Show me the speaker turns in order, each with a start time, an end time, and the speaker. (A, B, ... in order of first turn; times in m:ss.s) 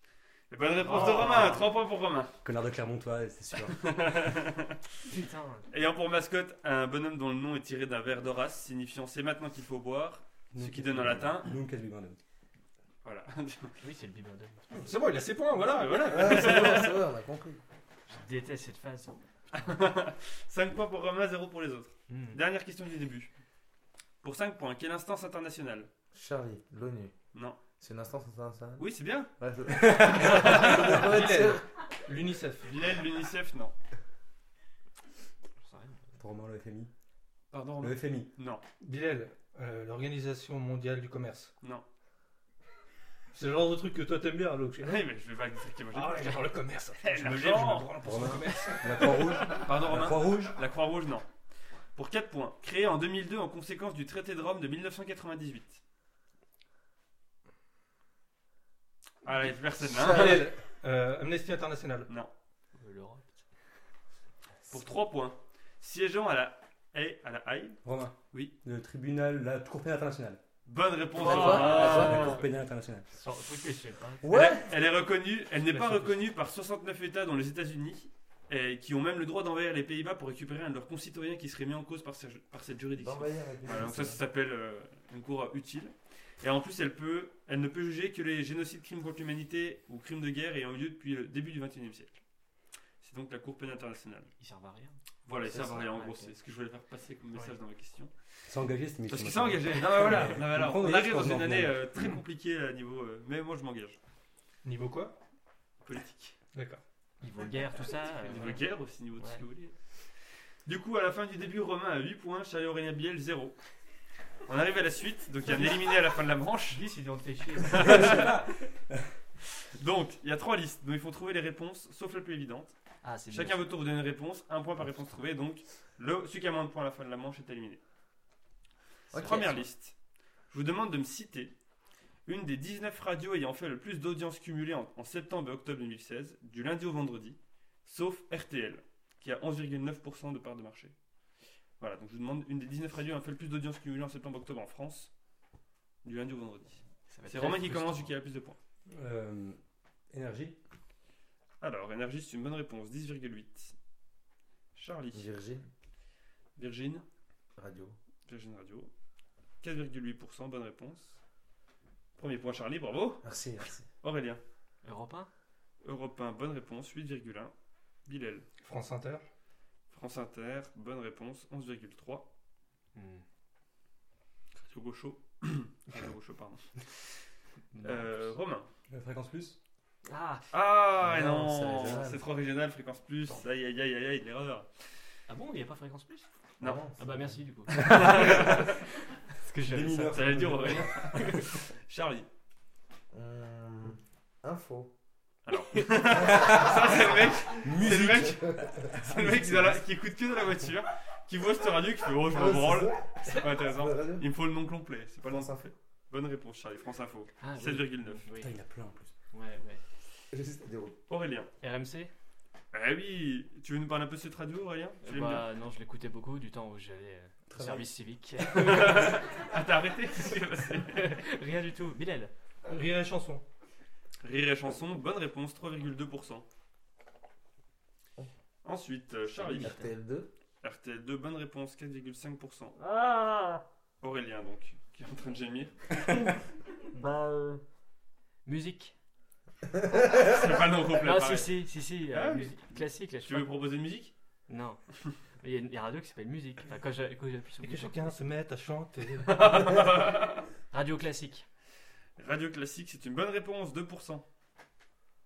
0:00.5-0:02.4 A
0:00.8-0:01.7 B
0:02.4-0:03.9 C
0:03.6-0:04.8 A
0:05.0-0:05.7 B
0:05.7-0:11.5 A
0:10.5-0:12.2 C
0:13.0-0:13.8 A
0:13.8-0:15.1 B
0:14.7-0:16.9 D
0:15.7-0:17.0 A
0:16.1-0:17.6 E
0:18.1-0:19.2 B
0:19.5-0:23.3 A
0:22.1-0:22.4 B
0:24.2-0:25.9 A
0:26.1-0:27.1 E
0:27.8-0:31.6 E
0:28.8-0:29.3 A
0:29.9-0:32.7 D
0:30.2-0:31.0 A
0:32.6-0:33.7 A
0:35.6-0:36.0 B
0:36.2-0:36.9 C
0:37.5-0:38.6 A
0:37.8-0:38.3 C
0:38.8-0:41.5 D
0:43.3-0:45.1 D
0:44.8-0:48.0 A
0:45.9-0:49.6 D
0:48.0-0:50.6 C
0:49.4-0:51.3 A
0:52.0-0:55.8 A
0:59.2-1:00.5 A
1:00.0-1:02.1 D
1:02.8-1:03.4 B
1:04.7-1:07.8 A
1:07.8-1:10.4 C
1:10.6-1:12.4 A
1:11.1-1:12.4 E
1:11.1-1:12.4 B
1:11.6-1:13.1 C
1:13.1-1:14.4 B
1:14.2-1:14.7 E
1:14.3-1:32.2 A
1:15.7-1:16.2 D
1:23.0-1:24.2 E
1:33.0-1:34.3 A
1:34.4-1:36.3 B
1:35.2-1:38.1 A
1:37.3-1:37.6 B
1:38.4-1:41.8 C
1:39.1-1:44.0 A
1:44.6-1:45.1 D
1:45.8-1:46.4 A
1:46.5-1:46.8 D
1:47.2-1:48.6 B
1:48.2-1:49.7 A
1:49.2-1:49.4 B
1:50.6-1:53.6 A
1:54.5-1:56.8 A
1:55.5-1:55.8 B
1:56.7-1:58.3 B
1:57.6-1:58.4 A
1:57.8-1:59.0 C
1:59.4-2:02.8 A
2:03.0-2:03.7 B
2:03.3-2:07.8 A
2:09.1-2:09.5 E
2:09.1-2:09.6 B
2:09.2-2:09.9 A
2:10.5-2:11.5 A
2:12.2-2:20.9 A
2:21.8-2:25.1 A
2:26.0-2:28.6 A
2:27.1-2:28.1 B
2:28.9-2:29.6 C
2:30.1-2:30.6 C
2:31.6-2:33.7 A
2:34.8-2:35.3 A
2:35.1-2:35.6 E
2:36.6-2:37.0 A
2:37.6-2:38.0 E
2:38.3-2:38.9 A
2:39.6-2:41.2 A
2:42.2-2:43.2 A
2:43.2-2:43.8 E
2:44.0-2:44.4 A
2:44.8-2:45.3 B
2:45.8-2:47.5 A
2:48.0-2:48.5 A
2:48.6-2:49.2 D
2:49.9-2:52.3 A
2:52.9-2:53.2 B
2:54.6-2:57.2 A
2:57.7-2:58.3 B
2:57.8-2:58.7 A
2:58.9-2:59.6 C
3:00.0-3:00.5 B
3:00.5-3:04.9 A
3:01.0-3:02.2 E
3:05.3-3:06.3 B
3:06.6-3:07.4 E
3:07.0-3:11.5 B
3:07.7-3:08.7 A
3:08.0-3:08.3 C
3:09.6-3:11.4 C
3:10.1-3:12.3 A
3:13.1-3:14.9 E
3:15.4-3:28.2 A
3:15.8-3:16.6 B
3:16.1-3:18.9 E
3:17.6-3:19.8 C
3:22.3-3:24.2 E
3:25.2-3:25.7 E
3:27.4-3:28.5 B
3:28.3-3:29.1 C
3:29.3-3:29.8 B
3:30.3-3:31.0 E
3:31.1-3:31.5 A
3:31.6-3:32.1 B
3:32.7-3:35.5 A
3:35.0-3:39.4 B
3:37.5-3:37.8 E
3:38.5-3:41.1 A
3:40.8-3:42.3 B
3:42.6-3:43.4 D
3:44.2-3:46.4 A
3:48.6-3:49.8 A
3:49.4-3:49.9 B
3:49.5-3:50.3 E
3:50.6-3:52.7 A
3:52.8-3:53.6 B
3:54.0-3:56.0 A
3:56.9-3:57.6 B
3:58.4-3:58.9 B
3:59.8-4:00.3 E
4:00.1-4:04.1 A
4:01.0-4:03.5 B
4:04.5-4:04.8 B
4:05.4-4:08.2 B
4:07.6-4:09.8 D
4:09.2-4:10.4 A
4:10.7-4:11.4 B
4:12.2-4:14.2 A